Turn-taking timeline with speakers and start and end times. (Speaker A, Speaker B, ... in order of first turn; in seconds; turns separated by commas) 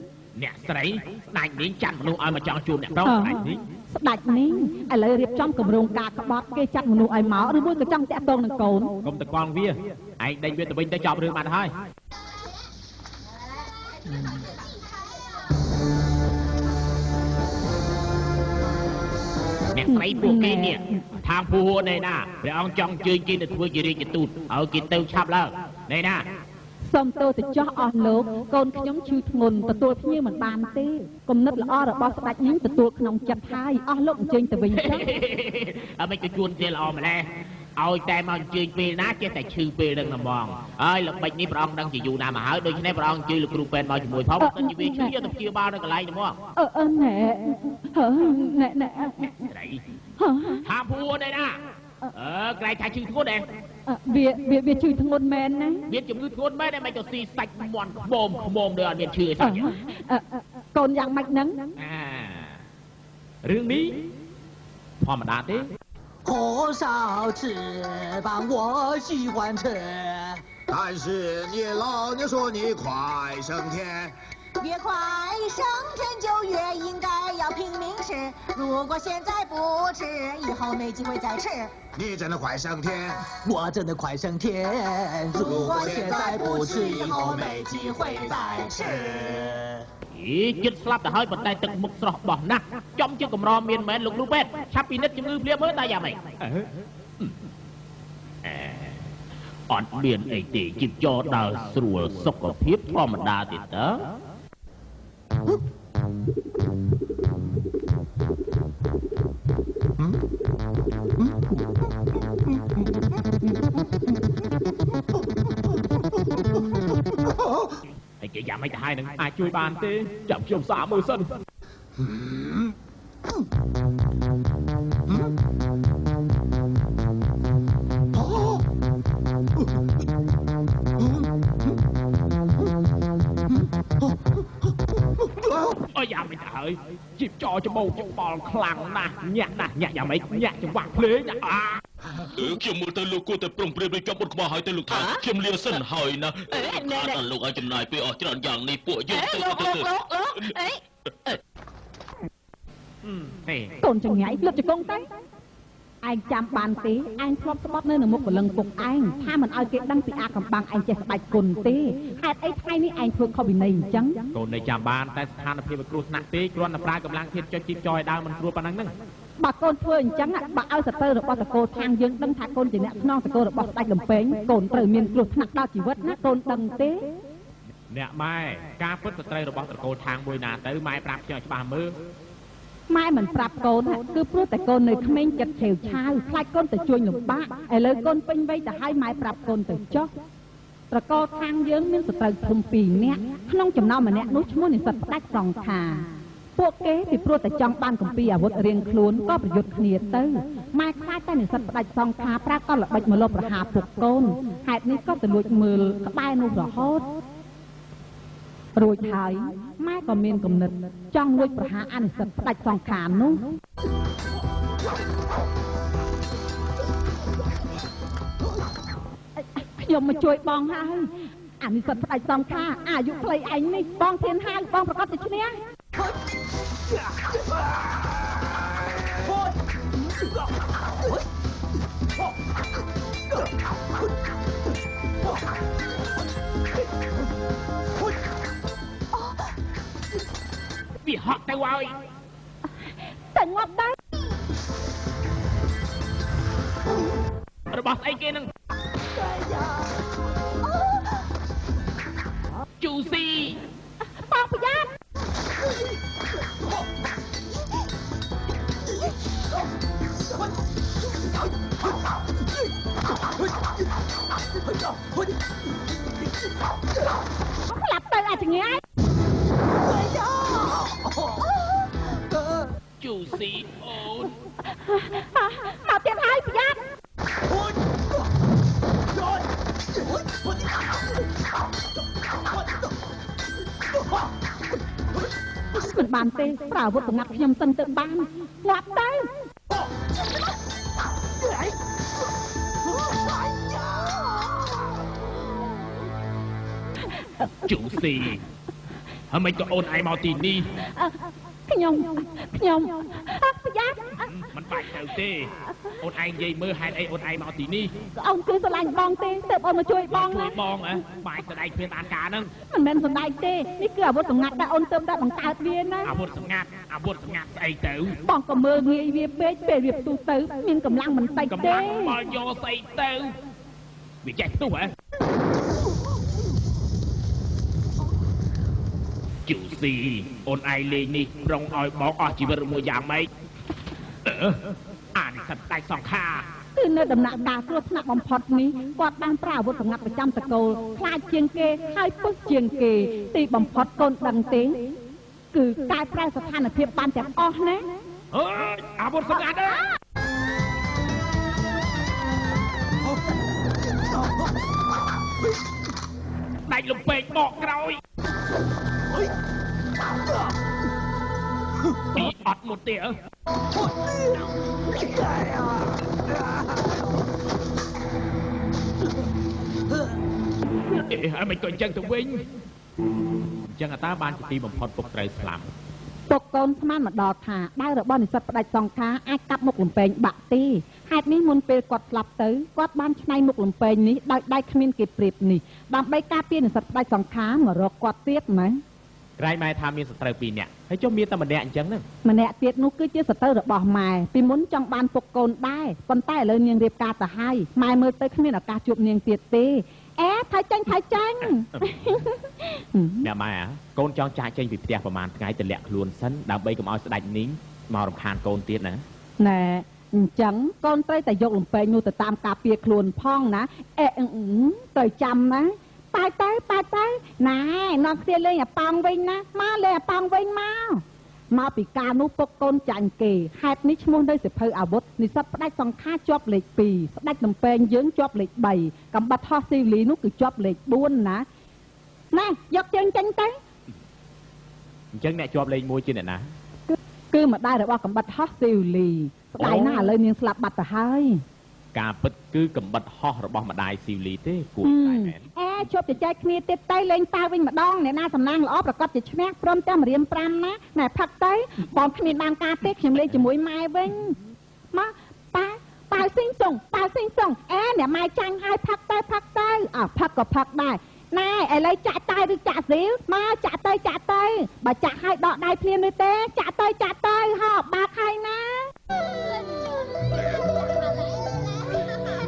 Speaker A: 0.3-3.6, Speaker B: 3.0-8.9, Speaker A: 9.0-11.7, Speaker A: 19.7-26.3, Speaker B: 19.9-21.0, Speaker B: 26.9-35.1, Speaker A: 34.7-46.4, Speaker B: 44.4-45.1, Speaker B: 46.5-49.5, Speaker A: 49.5-49.8, Speaker B: 50.2-50.6, Speaker A: 50.6-51.6, Speaker A: 52.1-53.5, Speaker B: 53.9-55.9, Speaker A: 55.9-59.8, Speaker B: 59.4-61.6, Speaker A: 61.8-62.6, Speaker A: 63.4-64.1, Speaker A: 65.0-65.7, Speaker C: 66.3-70.4, Speaker D: 66.3-67.7, Speaker D: 68.2-68.9, Speaker E: 70.7-74.1, Speaker D: 74.6-81.8, Speaker E: 81.9-83.2, Speaker C: 83.4-87.5, Speaker D: 85.3-89.0, Speaker E: 85.4-87.3, Speaker C: 88.2-89.7, Speaker A: 90.1-97.4, Speaker A: 98.4-99.1, Speaker A: 99.7-104.1, Speaker A: 118.2-121.3, Speaker A: 135.8-141.8, Speaker F: 142.3-150.5, Speaker G: 144.9-145.2, Speaker G: 146.5-147.2, Speaker G: 149.1-150.8, Speaker A: 153.1-153.8, Speaker B: 153.8-155.1, Speaker B: 156.0-164.3, Speaker A: 164.3-168.9, Speaker B: 169.4-177.1, Speaker A: 177.9-182.0, Speaker B: 182.9-190.1, Speaker B: 190.9-207.1, Speaker B: 208.8-213.5, Speaker B: 219.4-221.1, Speaker B: 221.6-225.6, Speaker A: 241.0-242.0, Speaker B: 243.2-243.9, Speaker A: 247.7-248.5, Speaker A: 252.8-253.6, Speaker B: 254.3-254.9, Speaker B: 267.6-268.8, Speaker A: 273.0-274.3, Speaker B: 274.8-276.8, Speaker B: 285.8-289.3, Speaker B: 297.1-297.7, Speaker A: 297.6-298.4, Speaker A: 299.3-300.7, Speaker B: 300.8-304.3, Speaker A: 304.3-307.9, Speaker B: 308.2-310.6, Speaker A: 310.1-312.5, Speaker B: 312.7-316.1, Speaker A: 316.0-318.2, Speaker B: 318.2-322.1, Speaker A: 321.5-323.4, Speaker A: 324.2-324.9, Speaker A: 329.4-333.3, Speaker A: 334.2-334.6, Speaker A: 335.1-336.5, Speaker B: 336.7-344.9, Speaker B: 345.5-348.0, Speaker A: 348.3-349.9, Speaker A: 356.7-358.0, Speaker A: 362.1-363.2, Speaker A: 370.9-372.5, Speaker A: 373.7-375.7, Speaker B: 376.3-388.8, Speaker A: 389.4-392.0, Speaker B: 392.2-403.3, Speaker A: 401.4-402.2, Speaker A: 403.2-409.0, Speaker B: 409.4-431.4, Speaker B: 432.3-433.6, Speaker A: 435.1-436.5, Speaker B: 436.9-441.4, Speaker A: 439.6-440.1, Speaker A: 441.9-445.5, Speaker B: 444.8-454.4, Speaker B: 454.9-468.9